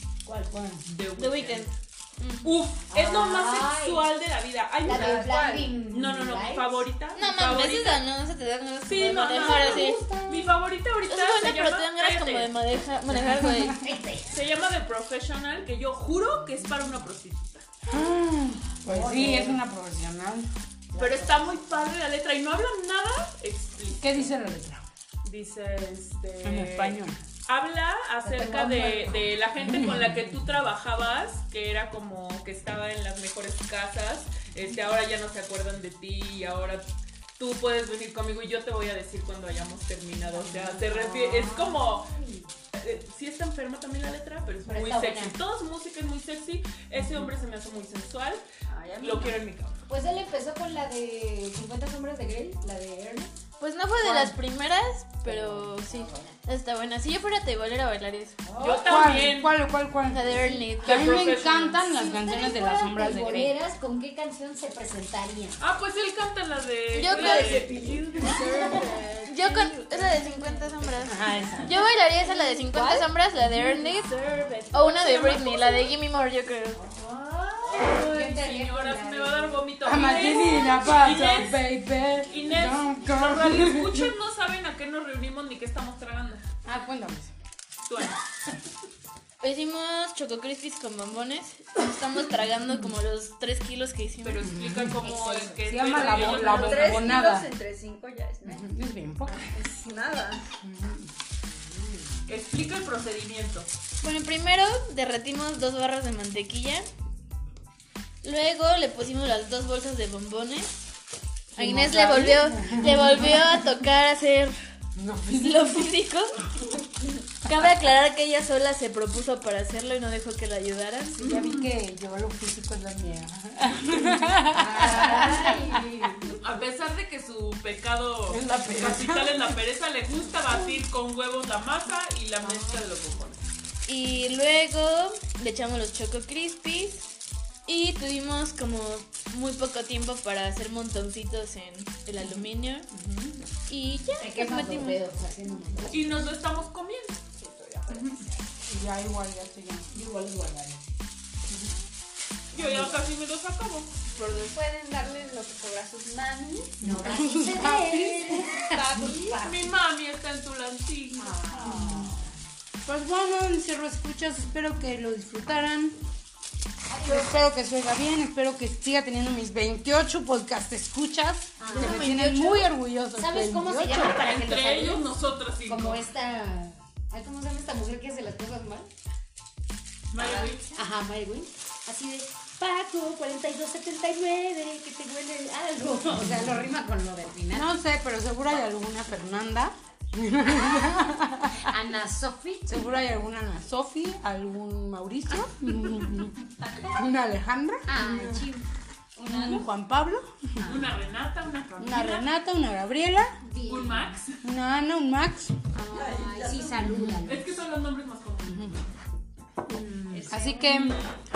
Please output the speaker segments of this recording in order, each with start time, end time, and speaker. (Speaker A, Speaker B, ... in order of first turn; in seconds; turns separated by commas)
Speaker A: 0.2-0.6, Speaker B: 0.5-0.8, Speaker C: 0.9-1.7, Speaker D: 1.2-2.6, Speaker C: 2.4-8.0, Speaker A: 2.9-4.1, Speaker A: 4.8-6.9, Speaker E: 4.9-5.3, Speaker D: 7.2-10.1, Speaker C: 8.9-12.6, Speaker A: 9.2-10.5, Speaker D: 11.1-13.8, Speaker B: 13.1-13.8, Speaker A: 13.8-14.4, Speaker C: 14.3-17.7, Speaker B: 17.9-20.5, Speaker A: 18.9-19.6, Speaker A: 20.9-21.6, Speaker C: 21.0-24.3, Speaker B: 23.9-24.9, Speaker C: 25.2-36.9, Speaker B: 26.4-27.2, Speaker A: 28.2-29.3, Speaker B: 29.6-30.5, Speaker C: 37.4-42.1, Speaker A: 40.3-42.5, Speaker C: 42.7-48.4, Speaker A: 44.7-45.4, Speaker E: 48.7-49.4, Speaker C: 49.0-49.8, Speaker A: 49.9-53.3, Speaker D: 53.6-58.4, Speaker A: 54.0-54.4, Speaker A: 55.2-56.4, Speaker A: 58.5-59.3, Speaker C: 58.6-59.6, Speaker B: 58.7-63.5, Speaker D: 60.1-61.2, Speaker C: 60.8-61.9, Speaker A: 61.8-65.6, Speaker C: 65.6-68.8, Speaker E: 66.9-70.9, Speaker D: 66.9-68.4, Speaker A: 67.4-67.7, Speaker D: 69.3-76.8, Speaker B: 71.0-71.7, Speaker A: 71.1-71.8, Speaker A: 72.7-73.1, Speaker E: 72.7-73.0, Speaker C: 74.5-75.9, Speaker C: 76.8-81.6, Speaker A: 77.7-79.7, Speaker B: 79.8-84.1, Speaker C: 82.3-86.4, Speaker B: 86.6-87.3, Speaker C: 87.9-88.2, Speaker D: 89.4-94.4, Speaker C: 94.2-97.3, Speaker B: 94.4-95.1, Speaker A: 95.0-95.7, Speaker B: 95.7-97.5, Speaker E: 96.0-98.7, Speaker B: 98.4-99.7, Speaker E: 99.3-100.5, Speaker B: 100.6-101.1, Speaker C: 102.3-103.7, Speaker D: 104.0-106.9, Speaker D: 108.2-110.8, Speaker B: 111.6-113.8, Speaker D: 111.6-114.6, Speaker B: 115.0-116.0, Speaker D: 115.3-116.4, Speaker D: 117.0-121.5, Speaker B: 121.1-126.1, Speaker C: 121.3-121.7, Speaker A: 124.5-126.4, Speaker C: 126.3-133.4, Speaker B: 128.3-129.6, Speaker A: 132.4-132.8, Speaker D: 133.9-137.1, Speaker D: 137.7-142.9, Speaker B: 142.2-143.4, Speaker D: 143.7-145.0, Speaker A: 144.2-146.3, Speaker C: 145.9-147.2, Speaker E: 147.3-148.4, Speaker C: 147.9-148.2, Speaker B: 148.7-149.9, Speaker A: 149.9-150.8, Speaker B: 151.5-151.7, Speaker C: 152.5-154.1, Speaker E: 154.1-156.8, Speaker B: 156.8-158.9, Speaker A: 156.8-159.7, Speaker E: 158.7-159.6, Speaker C: 159.3-161.3, Speaker A: 161.2-162.3, Speaker B: 161.5-162.1, Speaker B: 162.8-166.0, Speaker A: 166.9-167.3, Speaker B: 167.0-174.2, Speaker A: 171.6-172.1, Speaker D: 171.8-172.7, Speaker A: 173.2-175.1, Speaker C: 173.9-176.1, Speaker A: 175.7-178.9, Speaker C: 180.1-180.7, Speaker A: 180.2-187.7, Speaker B: 186.2-186.6, Speaker B: 187.5-191.7, Speaker A: 191.6-192.8, Speaker B: 192.7-198.5, Speaker A: 197.9-198.7, Speaker E: 199.2-199.6, Speaker B: 199.3-200.9, Speaker A: 200.6-200.9, Speaker C: 200.6-202.3, Speaker B: 201.8-203.4, Speaker A: 203.4-204.2, Speaker C: 203.7-204.4, Speaker B: 204.4-205.6, Speaker A: 205.7-207.4, Speaker E: 205.8-207.0, Speaker B: 206.8-207.3, Speaker C: 207.3-208.8, Speaker B: 208.4-208.8, Speaker A: 209.7-210.4, Speaker E: 210.1-211.0, Speaker B: 210.3-211.0, Speaker C: 210.7-211.0